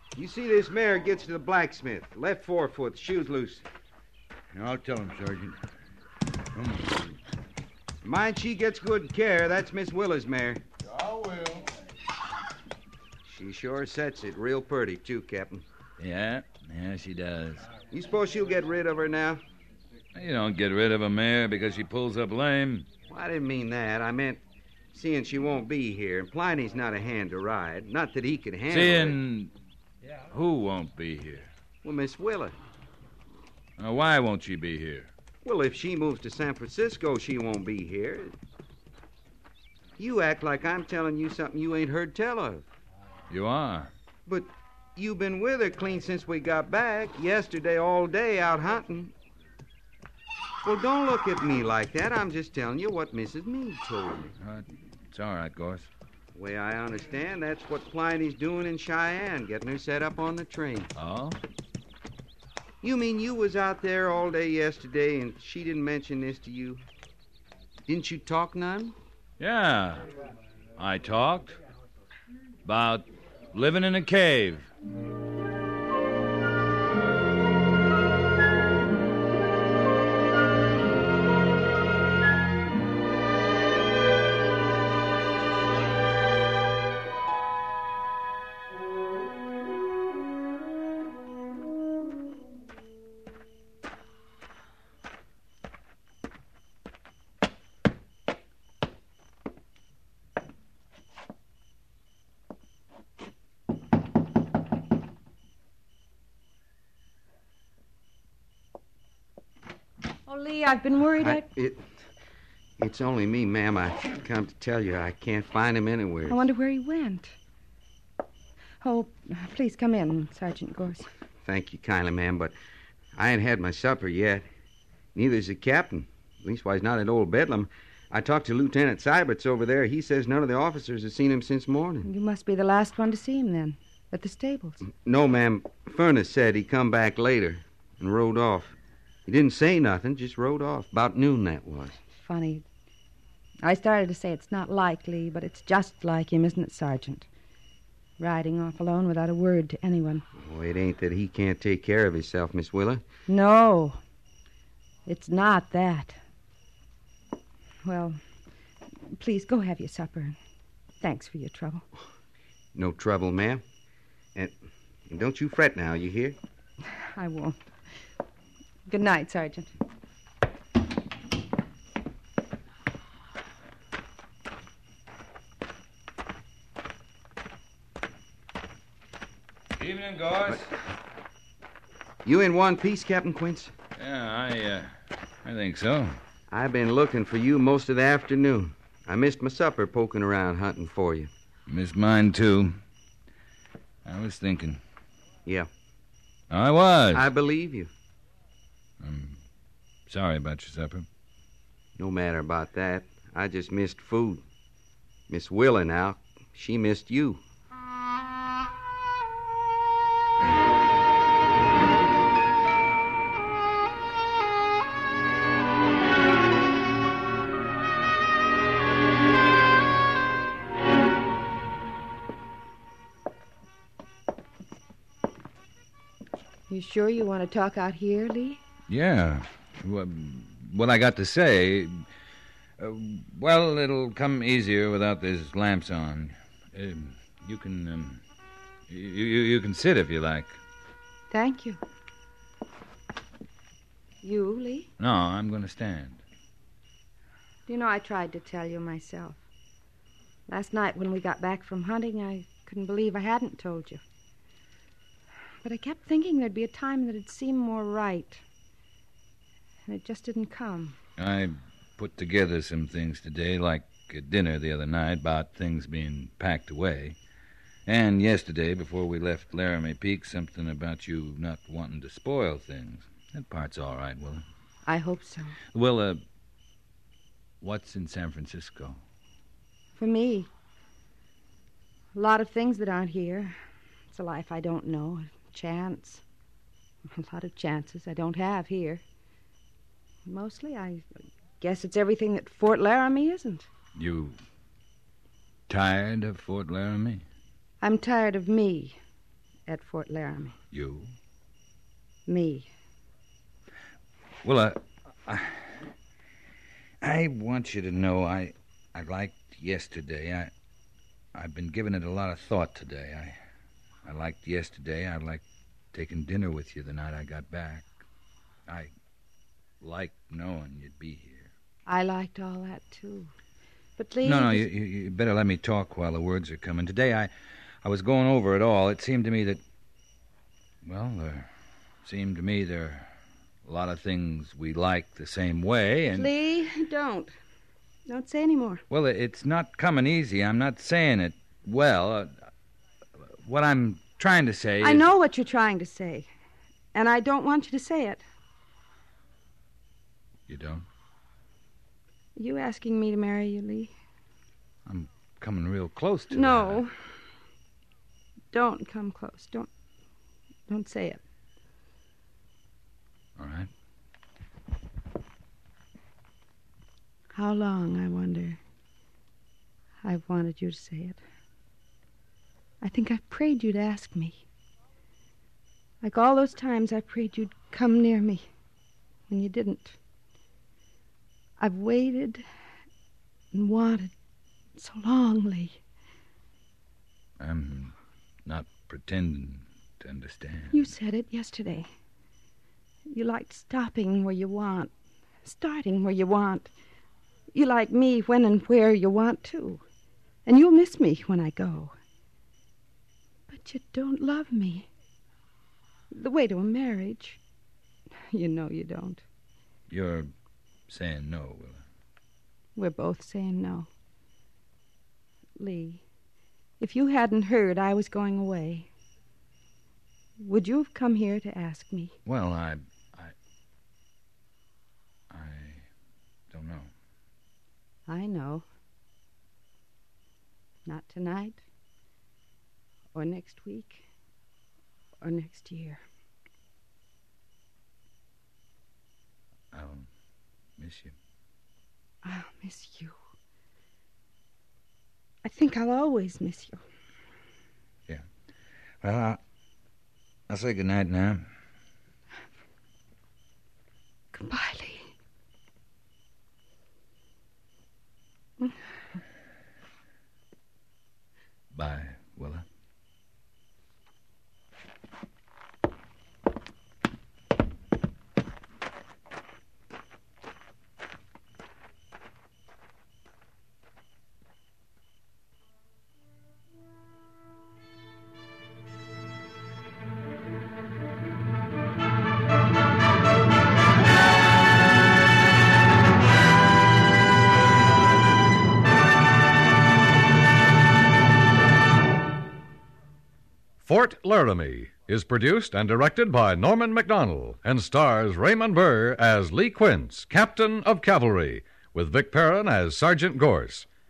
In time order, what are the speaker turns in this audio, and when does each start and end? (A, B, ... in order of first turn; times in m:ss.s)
0:00.2-0:03.7 A
0:04.5-0:05.6 B
0:06.6-0:07.1 B
0:08.0-0:10.6 A
0:10.8-0:11.7 B
0:13.2-0:15.6 A
0:16.0-0:17.7 C
0:17.9-0:19.4 A
0:20.1-0:22.9 C
0:23.1-0:24.4 A
0:24.9-0:29.2 A
0:28.7-0:29.5 C
0:30.3-0:31.5 C
0:31.8-0:32.6 A
0:33.8-0:35.1 C
0:35.4-0:38.4 A
0:40.0-0:42.7 A
0:43.3-0:43.9 C
0:44.3-0:49.1 A
0:50.6-0:54.3 A
0:54.4-0:55.9 C
0:56.3-1:00.9 A
1:01.0-1:01.4 C
1:02.8-1:06.8 A
1:07.9-1:09.0 A
1:09.4-1:10.1 C
1:10.8-1:11.6 C
1:12.6-1:14.7 C
1:50.3-1:51.5 D
1:51.2-1:51.8 A
1:52.8-1:56.4 A
1:56.3-1:57.4 D
1:58.8-2:01.1 D
2:01.4-2:02.5 A
2:03.2-2:04.4 A
2:05.2-2:12.1 A
2:12.0-2:14.9 D
2:14.9-2:22.0 A
2:22.1-2:22.6 D
2:23.6-2:27.3 D
2:28.2-2:30.2 D
2:30.4-2:33.0 A
2:33.3-2:34.0 D
2:35.1-2:36.2 D
2:37.8-2:38.2 D
2:39.1-2:40.4 D
2:41.0-2:41.8 D
2:42.8-2:43.6 A
2:45.1-2:46.4 A
2:46.9-2:47.7 D
2:48.9-2:49.7 D
2:59.8-3:00.7 C
3:02.2-3:03.7 A
3:04.0-3:04.9 C
3:05.4-3:06.2 C
3:06.5-3:11.3 A
3:11.7-3:12.8 C
3:14.0-3:14.8 C
3:16.5-3:17.3 C
3:17.1-3:17.9 A
3:19.0-3:19.4 C
3:20.1-3:21.1 C
3:22.0-3:24.4 A
3:25.3-3:27.4 A
3:46.7-3:48.6 D
3:48.9-3:52.0 C
3:52.8-3:58.2 C
3:58.9-4:00.6 C
4:01.3-4:01.8 D
4:04.2-4:04.9 D
4:05.0-4:06.2 C
4:07.7-4:09.4 D
4:10.5-4:14.0 D
4:15.6-4:18.4 D
4:19.9-4:21.0 D
4:21.2-4:27.2 C
4:27.9-4:34.4 C
4:34.9-4:35.6 D
4:35.7-4:36.2 C
4:37.6-4:39.0 C
4:40.0-4:40.5 D
4:42.1-4:43.6 D
4:44.1-4:46.2 D
4:47.1-4:49.0 D
4:50.3-4:51.1 D
4:51.6-4:53.7 D
4:54.0-4:54.4 C
4:55.7-4:57.2 C
4:57.8-4:59.0 D
4:59.7-5:00.6 D
5:00.7-5:01.1 C
5:02.3-5:02.7 D
5:04.4-5:05.8 C
5:07.0-5:10.5 C
5:11.3-5:13.4 C
5:14.0-5:17.9 C
5:19.8-5:21.5 C
5:21.9-5:23.3 D
5:24.0-5:24.7 D
5:24.2-5:27.3 C
5:27.8-5:29.6 C
5:30.8-5:31.5 C
5:32.0-5:33.1 C
5:33.6-5:36.3 C
5:36.1-5:37.3 D
5:38.1-5:38.8 D
5:38.9-5:42.3 C
5:43.4-5:45.1 C
5:44.8-5:46.3 D
5:46.9-5:48.2 D
5:50.5-5:50.9 C
5:52.4-5:53.9 D
5:54.9-5:56.8 C
5:56.3-5:56.9 D
5:58.5-5:59.7 D
6:00.7-6:01.2 D
6:03.4-6:03.7 C
6:07.3-6:08.6 D
6:10.0-6:11.2 D
6:12.8-6:14.4 D
6:16.0-6:18.5 D
6:19.3-6:20.0 D
6:21.6-6:22.4 D
6:23.5-6:24.1 D
6:24.8-6:25.8 D
6:27.4-6:27.9 C
6:28.5-6:30.9 C
6:30.7-6:31.9 D
6:33.1-6:34.9 D
6:35.4-6:36.7 D
6:37.5-6:39.8 D
6:40.5-6:41.9 D
6:43.5-6:44.9 D
6:46.1-6:47.4 D
6:48.3-6:49.2 D
6:49.9-6:50.3 C
6:50.9-6:51.8 C
6:52.8-6:53.9 D
6:55.6-6:56.0 D
6:56.8-6:58.9 D
7:00.4-7:02.2 D
7:02.3-7:03.3 C
7:05.3-7:05.9 C
7:06.5-7:06.9 C
7:08.1-7:08.6 D
7:10.9-7:11.6 D
7:13.1-7:14.1 D
7:15.2-7:16.0 D
7:19.7-7:20.1 C
7:20.8-7:21.2 C
7:22.2-7:23.2 D
7:25.4-7:26.8 D
7:29.0-7:29.4 C
7:30.5-7:31.5 C
7:34.3-7:35.1 D
7:41.7-7:42.6 C
8:13.8-8:23.9 E